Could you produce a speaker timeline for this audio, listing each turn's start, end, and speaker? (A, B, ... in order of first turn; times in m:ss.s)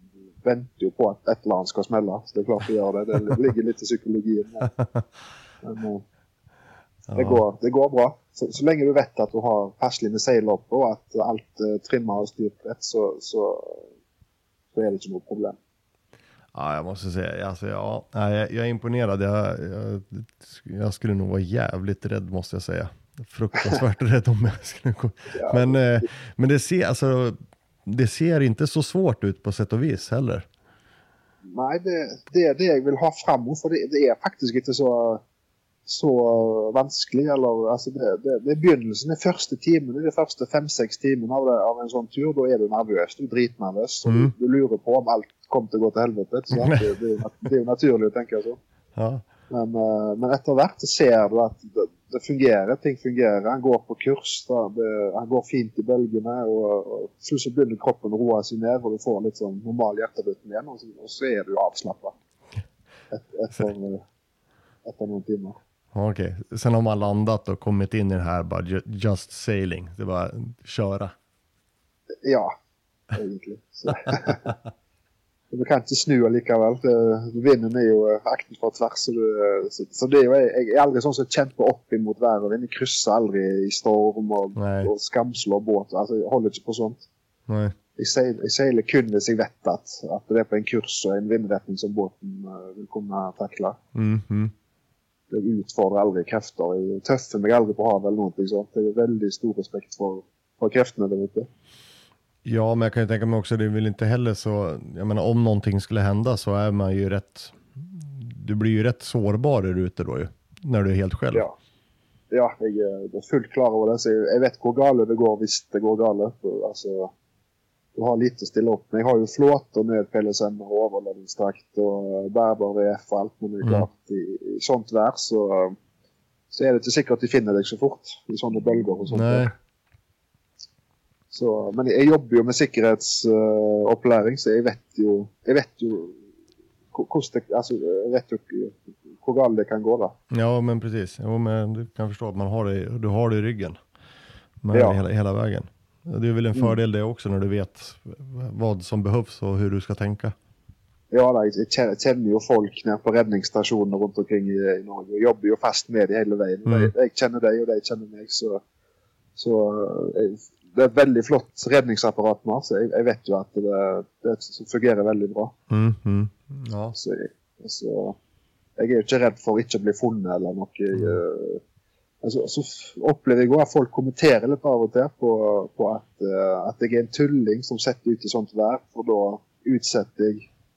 0:00.4-0:04.7 A
0:05.6-0:06.0 A
0:07.1-0:07.4 B
0:07.1-0:13.9 A
0:14.7-0:15.6 A
0:16.5-0:30.5 B
0:25.3-0:26.0 A
0:31.5-0:35.2 A
0:35.9-0:48.6 A
0:44.1-0:44.3 B
0:46.5-0:46.8 B
0:49.0-0:49.2 B
0:49.5-1:02.1 A
1:03.1-1:04.0 A
1:04.8-1:05.6 A
1:05.9-1:11.1 B
1:12.2-1:12.5 A
1:13.1-1:14.5 A
1:15.5-1:27.1 A
1:24.6-1:24.9 B
1:27.5-1:27.8 B
1:28.0-1:33.8 A
1:33.9-1:34.5 B
1:35.3-1:41.5 A
1:42.4-1:51.4 B
1:52.3-1:57.1 A
1:57.9-2:05.8 A
2:03.6-2:03.9 B
2:06.5-2:09.5 A
2:09.1-2:09.5 B
2:11.3-2:16.2 A
2:16.9-2:20.1 A
2:20.3-2:23.8 B
2:24.6-2:30.4 B
2:24.7-2:25.0 A
2:31.1-2:38.6 A
2:36.7-2:36.9 B
2:39.4-2:45.5 A
2:45.7-2:47.0 B
2:47.0-2:48.2 A
2:48.8-2:51.6 A
2:50.9-2:51.2 B
2:52.2-3:00.5 A